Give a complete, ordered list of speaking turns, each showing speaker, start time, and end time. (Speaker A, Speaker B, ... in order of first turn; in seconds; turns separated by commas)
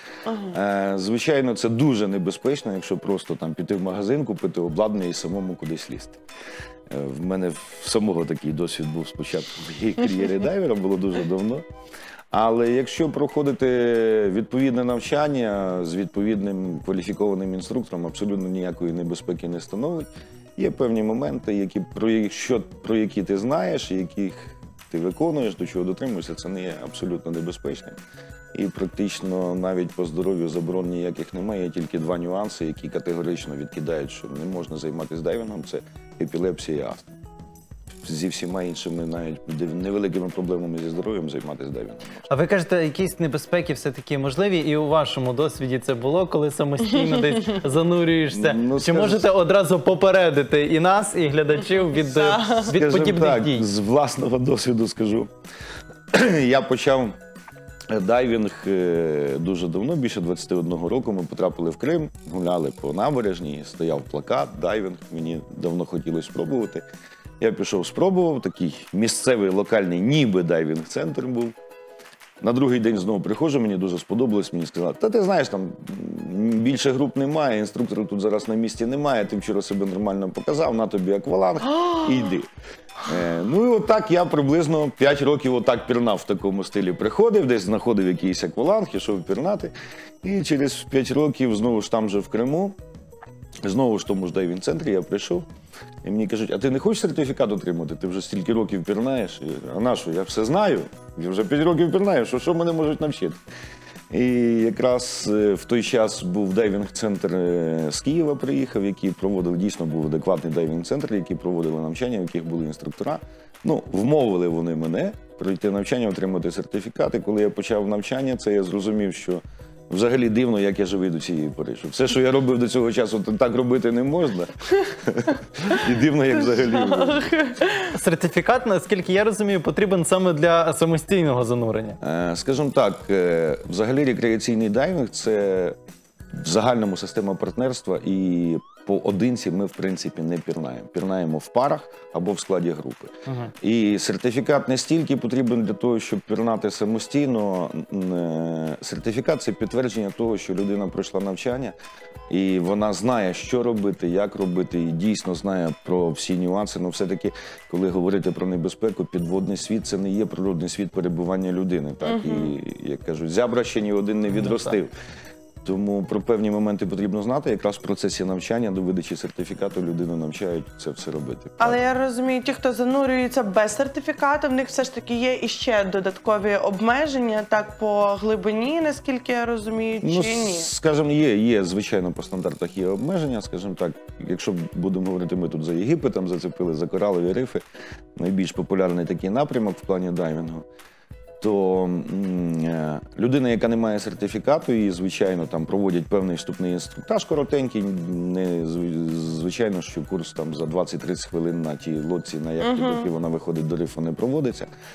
Speaker A: 0.3-0.6, Speaker B: 0.5-6.2, Speaker B: 6.9-11.7, Speaker B: 12.3-28.0, Speaker B: 28.5-37.2, Speaker B: 38.0-42.2, Speaker C: 42.3-53.6, Speaker B: 48.3-49.2, Speaker A: 51.8-52.8, Speaker B: 52.7-55.3, Speaker B: 56.1-57.1, Speaker B: 57.9-66.8, Speaker B: 67.4-71.5, Speaker B: 72.4-82.5, Speaker B: 83.0-92.8, Speaker B: 93.6-95.5, Speaker B: 96.0-103.4, Speaker B: 104.1-127.3, Speaker A: 126.5-127.9, Speaker C: 127.9-132.0, Speaker B: 132.0-135.8, Speaker B: 136.3-151.8, Speaker C: 143.3-143.5, Speaker B: 152.3-164.9, Speaker A: 162.0-162.6, Speaker C: 164.3-164.8, Speaker B: 165.6-171.8, Speaker A: 171.6-180.7, Speaker B: 180.0-187.6, Speaker B: 188.2-190.7, Speaker B: 191.4-204.7, Speaker A: 202.6-203.1